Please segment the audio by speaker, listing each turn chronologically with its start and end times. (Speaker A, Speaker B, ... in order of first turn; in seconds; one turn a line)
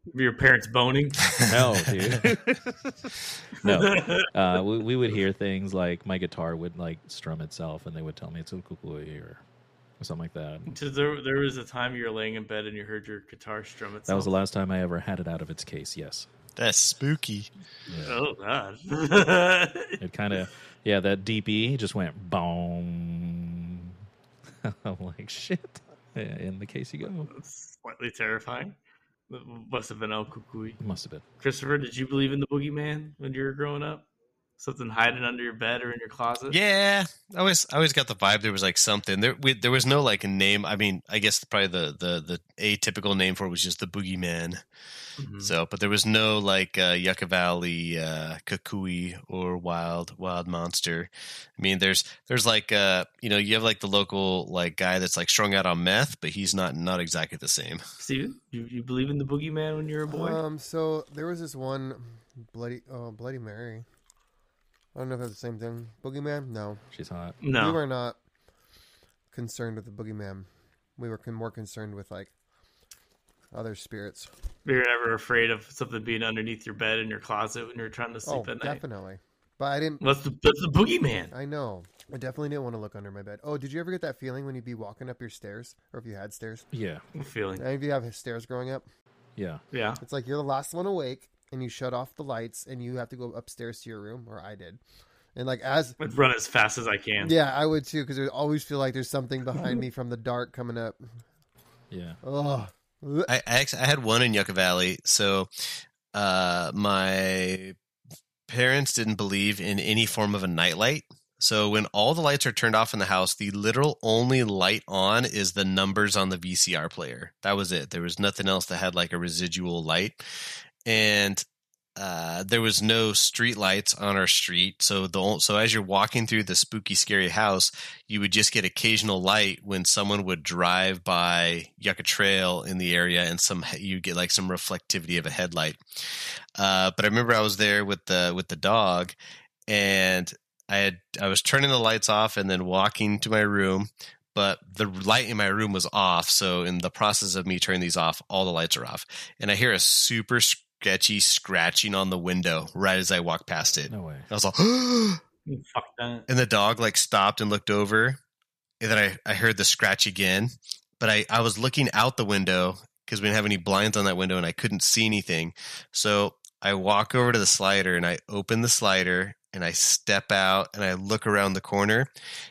Speaker A: 0.1-1.4
Speaker B: 1.4-9.4
Speaker A: 3.6-4.3
Speaker B: 10.0-10.7
Speaker A: 10.7-14.3
Speaker B: 14.1-16.3
Speaker C: 16.6-17.5
Speaker B: 17.9-18.2
Speaker A: 18.0-20.0
Speaker B: 20.0-24.0
Speaker B: 24.6-27.3
Speaker A: 27.3-28.8
Speaker A: 29.3-30.8
Speaker B: 30.8-31.2
Speaker A: 31.4-34.1
Speaker A: 34.6-36.6
Speaker C: 36.5-44.6
Speaker A: 45.2-45.5
Speaker C: 45.4-57.8
Speaker A: 58.0-60.4
Speaker D: 60.1-63.9
Speaker D: 65.0-66.8
Speaker B: 66.9-67.4
Speaker A: 67.4-67.8
Speaker D: 67.5-68.2
Speaker D: 69.3-72.3
Speaker D: 73.5-74.3
Speaker A: 74.7-78.8
Speaker D: 78.2-80.0
Speaker A: 80.0-81.3
Speaker D: 81.3-86.7
Speaker B: 86.7-87.0
Speaker A: 87.1-87.7
Speaker D: 87.6-88.8
Speaker B: 89.4-89.6
Speaker A: 89.7-90.0
Speaker D: 90.0-94.8
Speaker D: 95.3-96.0
Speaker A: 96.0-97.3
Speaker D: 97.2-101.2
Speaker B: 101.9-102.2
Speaker D: 102.2-103.3
Speaker C: 103.3-107.8
Speaker C: 108.5-120.3
Speaker C: 120.8-121.4
Speaker C: 122.0-139.2
Speaker C: 139.7-155.2
Speaker B: 153.9-154.3
Speaker A: 155.5-156.3
Speaker C: 156.3-158.2
Speaker C: 158.8-172.1